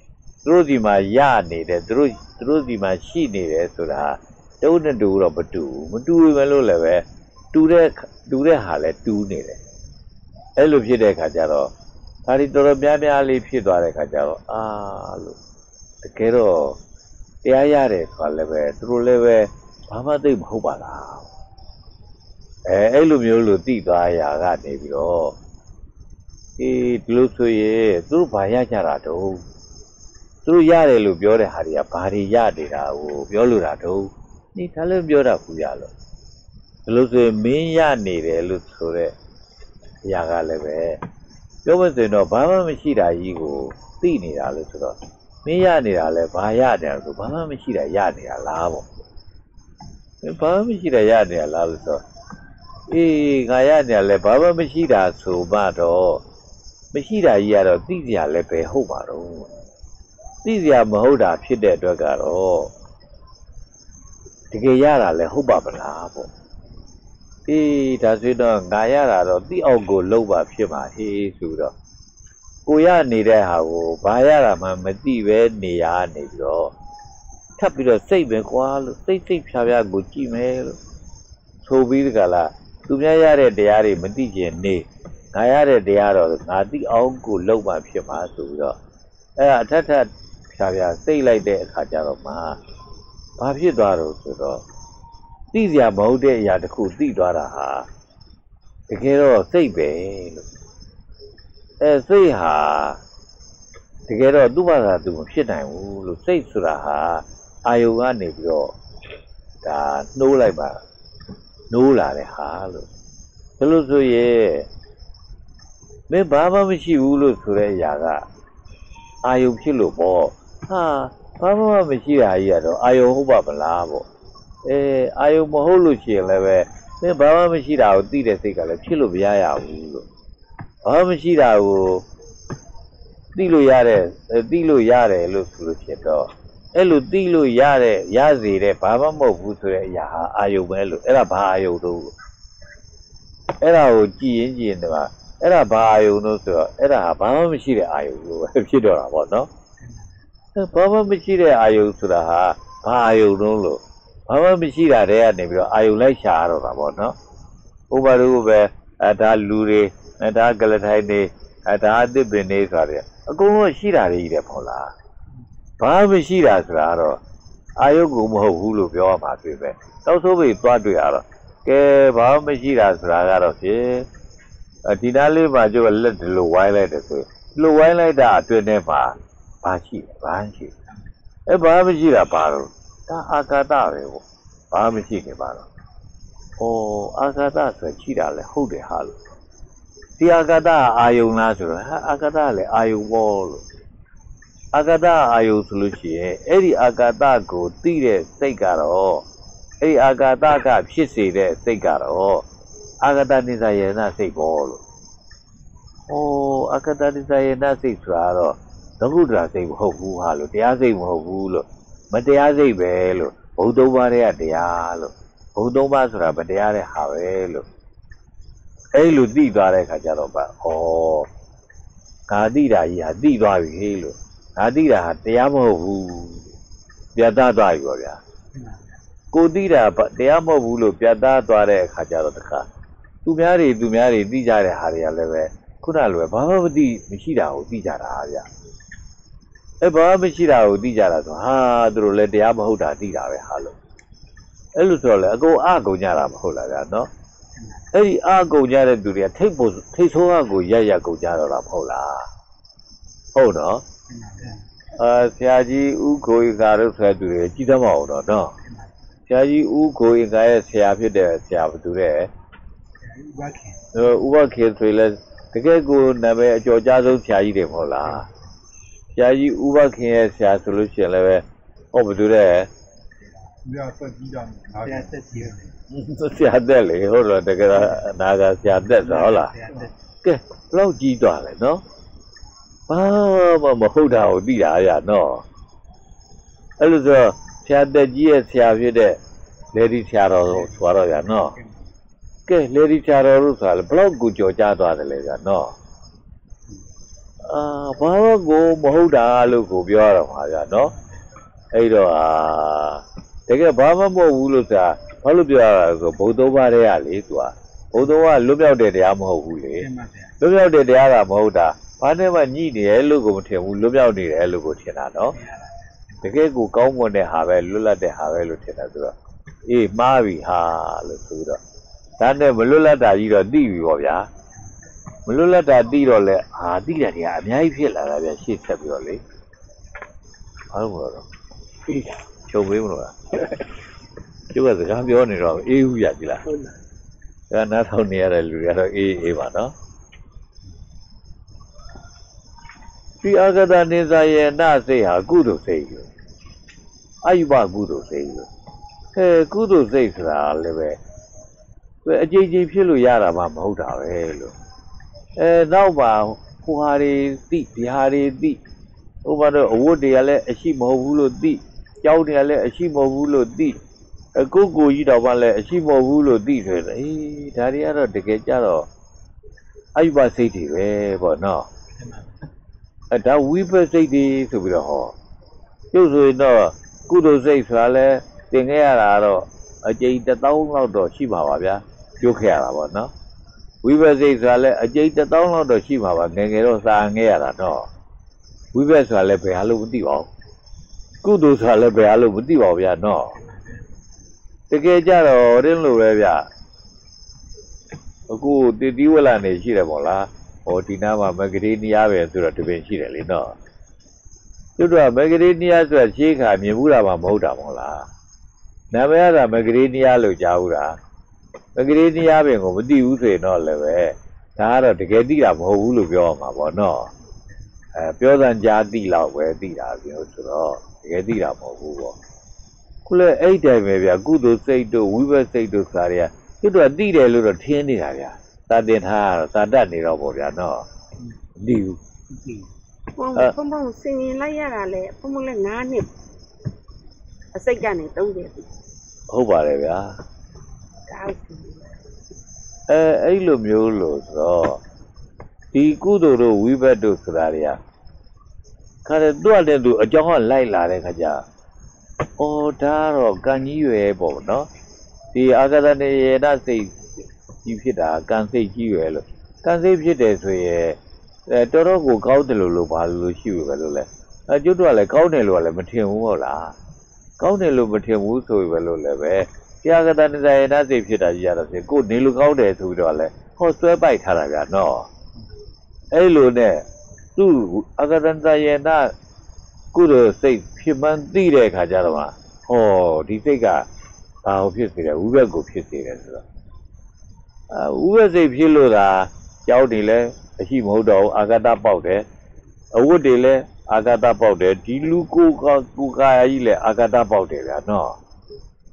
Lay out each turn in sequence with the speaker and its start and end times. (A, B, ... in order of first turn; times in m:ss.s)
0:00.4-0:09.6 A
0:10.6-0:11.7 A
0:12.3-0:15.4 A
0:16.0-0:16.8 A
0:17.4-0:21.3 A
0:22.7-0:25.4 A
0:26.6-0:29.4 A
0:30.4-0:35.9 A
0:36.9-0:39.1 A
0:40.0-0:41.0 A
0:41.6-0:48.9 A
0:50.2-0:52.0 A
0:52.9-0:56.2 A
0:56.9-0:59.5 A
1:00.4-1:02.7 A
1:04.5-1:06.3 A
1:07.5-1:11.7 A
1:12.6-1:16.7 A
1:17.6-1:20.8 A
1:21.6-1:28.8 A
1:29.4-1:32.6 A
1:33.4-1:34.6 A
1:35.5-1:37.9 A
1:38.9-1:40.5 A
1:41.8-1:43.0 A
1:44.1-1:48.8 A
1:49.6-1:50.8 A
1:51.7-1:52.9 A
1:53.6-1:54.7 A
1:56.1-1:58.3 A
1:59.2-2:04.1 A
2:04.6-2:10.1 A
2:10.8-2:12.0 A
2:13.4-2:22.1 A
2:23.6-2:29.5 A
2:30.6-2:37.2 A
2:37.9-2:44.9 A
2:45.8-2:47.2 A
2:47.8-2:54.1 A
2:54.8-3:00.7 A
3:01.5-3:05.7 A
3:06.6-3:09.2 A
3:10.2-3:13.6 A
3:14.7-3:19.3 A
3:19.8-3:22.5 A
3:23.0-3:24.8 A
3:26.1-3:37.7 A
3:38.9-3:41.3 A
3:42.3-3:46.4 A
3:47.2-3:48.2 A
3:48.5-3:49.0 B
3:49.3-3:52.7 A
3:53.2-3:58.5 A
3:59.8-4:03.8 A
4:04.8-4:07.1 A
4:07.6-4:07.8 B
4:07.9-4:12.3 A
4:13.4-4:13.8 A
4:14.1-4:14.6 B
4:15.0-4:18.5 A
4:18.6-4:18.9 B
4:19.3-4:22.3 A
4:23.0-4:23.8 B
4:23.9-4:28.3 A
4:29.2-4:32.7 A
4:33.6-4:35.7 B
4:35.9-4:39.6 A
4:39.0-4:39.9 B
4:40.2-4:41.8 A
4:42.9-4:45.4 A
4:46.8-4:49.2 A
4:49.7-4:51.6 A
4:52.5-4:55.7 A
4:57.5-5:00.9 A
5:01.7-5:09.9 A
5:09.8-5:10.4 B
5:10.4-5:15.4 A
5:15.3-5:15.9 B
5:16.2-5:19.2 A
5:19.7-5:21.6 A
5:22.2-5:24.3 A
5:25.3-5:29.2 A
5:30.7-5:31.3 A
5:32.5-5:33.4 A
5:34.5-5:36.5 A
5:37.5-5:39.7 A
5:43.2-5:46.1 A
5:47.2-5:48.5 A
5:49.1-5:51.0 A
5:52.0-5:54.5 A
5:55.4-5:58.6 A
5:59.2-6:03.8 A
6:04.4-6:08.9 A
6:10.0-6:11.7 A
6:12.0-6:12.4 B
6:13.1-6:15.2 A
6:15.9-6:23.1 A
6:23.8-6:27.9 A
6:28.7-6:30.3 A
6:31.2-6:33.4 A
6:33.4-6:33.9 B
6:34.7-6:36.5 A
6:38.3-6:43.6 A
6:44.8-6:48.1 A
6:48.9-6:51.0 A
6:51.8-6:57.1 A
6:58.0-7:02.2 A
7:03.1-7:10.9 A
7:11.6-7:12.0 A
7:12.3-7:12.6 B
7:13.2-7:16.1 C
7:17.5-7:18.7 C
7:19.3-7:20.2 A
7:21.1-7:21.9 C
7:22.9-7:24.8 A
7:25.7-7:27.8 A
7:29.0-7:31.4 A
7:32.4-7:34.7 A
7:35.3-7:37.1 A
7:37.6-7:46.8 A
7:47.4-7:55.1 A
7:56.1-7:56.8 A
7:57.4-7:59.1 A
7:59.9-8:03.9 A
8:04.4-8:06.4 A
8:07.7-8:12.2 A
8:12.9-8:18.2 A